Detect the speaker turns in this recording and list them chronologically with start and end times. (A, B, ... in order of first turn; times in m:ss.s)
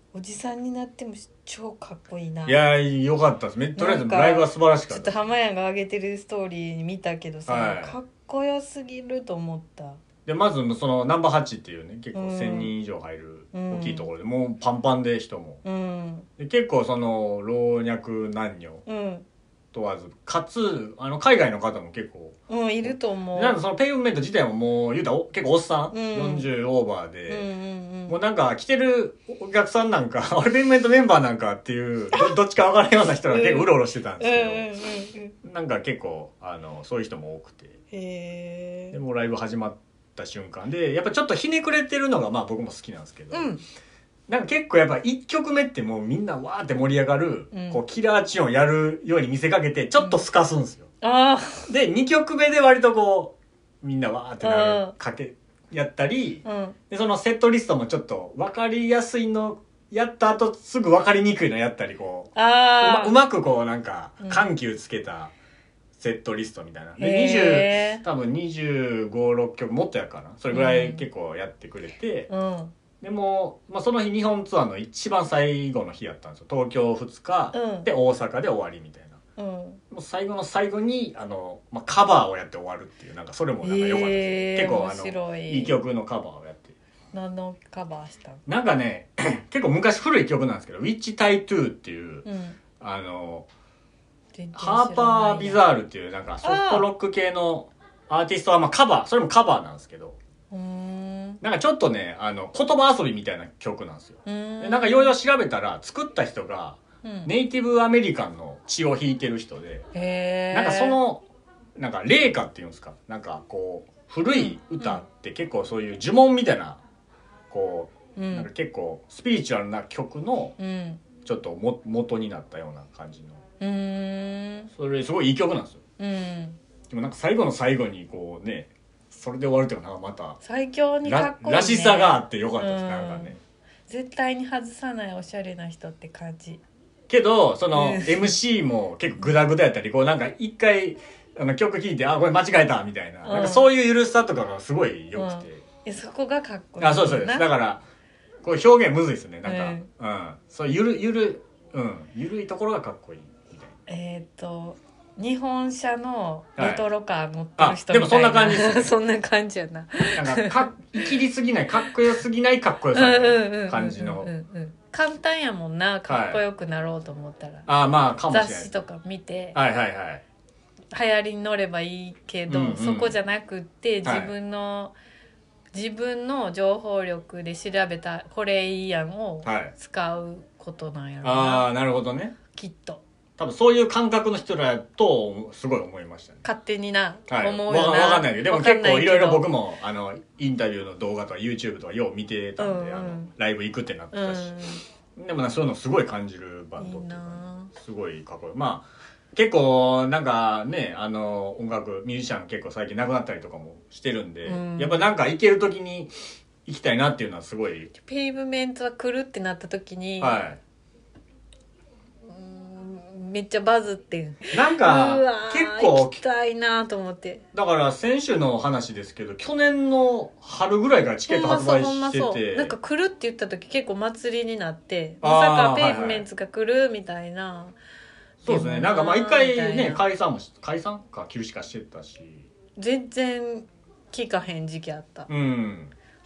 0:00.1-0:02.6 A
0:02.4-0:05.2 B
0:03.8-0:10.0 A
0:07.5-0:08.0 B
0:10.2-0:15.6 B
0:12.1-0:12.7 A
0:13.5-0:14.1 A
0:15.6-0:16.3 A
0:16.4-0:18.8 B
0:18.8-0:19.2 A
0:19.7-0:27.5 B
0:22.5-0:23.6 A
0:25.9-0:26.5 A
0:27.3-0:28.2 A
0:28.1-0:34.7 B
0:33.3-0:35.3 A
0:35.4-0:37.8 B
0:37.9-0:39.0 A
0:38.9-0:43.5 B
0:43.3-0:43.6 A
0:44.3-0:50.9 B
0:47.5-0:47.8 A
0:51.0-0:51.7 A
0:51.7-1:05.3 B
0:54.4-0:54.9 A
0:56.4-0:56.8 A
1:02.3-1:03.2 A
1:04.2-1:04.5 A
1:06.0-1:12.3 B
1:07.0-1:08.0 A
1:10.5-1:11.0 A
1:12.3-1:12.7 A
1:13.0-1:19.2 B
1:17.5-1:17.9 A
1:19.4-1:19.8 A
1:19.9-1:26.8 B
1:23.6-1:25.8 A
1:27.1-1:28.4 A
1:28.5-1:32.2 B
1:32.2-1:32.6 A
1:32.8-1:33.5 B
1:34.3-1:35.6 A
1:34.5-1:40.2 B
1:36.4-1:36.9 A
1:40.5-1:41.4 A
1:41.4-1:49.9 B
1:44.2-1:45.1 A
1:47.0-1:47.3 A
1:49.9-1:51.0 A
1:50.5-1:51.2 B
1:51.8-1:56.8 B
1:54.3-1:55.0 A
1:57.5-2:00.6 B
1:58.2-1:58.5 A
2:00.6-2:01.0 A
2:01.2-2:03.4 B
2:03.6-2:04.7 A
2:04.7-2:05.8 B
2:06.0-2:06.6 A
2:06.9-2:10.4 B
2:10.4-2:13.3 A
2:11.0-2:13.4 B
2:13.9-2:16.6 A
2:17.1-2:25.6 B
2:17.7-2:18.4 A
2:23.2-2:23.7 A
2:25.1-2:27.5 A
2:26.8-2:27.8 B
2:28.4-2:33.7 B
2:29.4-2:29.9 A
2:33.9-2:41.1 A
2:36.6-2:36.8 B
2:37.6-2:38.9 B
2:40.1-2:44.3 B
2:42.9-2:47.7 A
2:46.1-2:46.4 B
2:47.6-2:48.7 B
2:48.3-2:49.6 A
2:49.5-2:50.2 B
2:50.9-2:54.9 A
2:52.5-2:53.1 B
2:54.0-2:54.3 B
2:55.7-3:01.7 A
2:59.4-2:59.7 B
3:01.2-3:02.4 B
3:02.5-3:03.0 A
3:03.4-3:06.4 B
3:06.4-3:09.5 A
3:07.3-3:14.6 B
3:12.6-3:13.3 A
3:14.1-3:14.8 A
3:15.2-3:26.1 B
3:16.8-3:17.7 A
3:24.4-3:25.0 A
3:26.6-3:27.9 B
3:28.0-3:30.4 A
3:30.2-3:30.6 B
3:32.2-3:37.4 A
3:34.5-3:36.2 B
3:37.5-3:42.7 B
3:41.3-3:47.8 A
3:45.2-3:46.2 B
3:48.4-3:52.5 B
3:48.4-3:50.0 A
3:52.8-3:55.3 A
3:55.3-3:55.9 B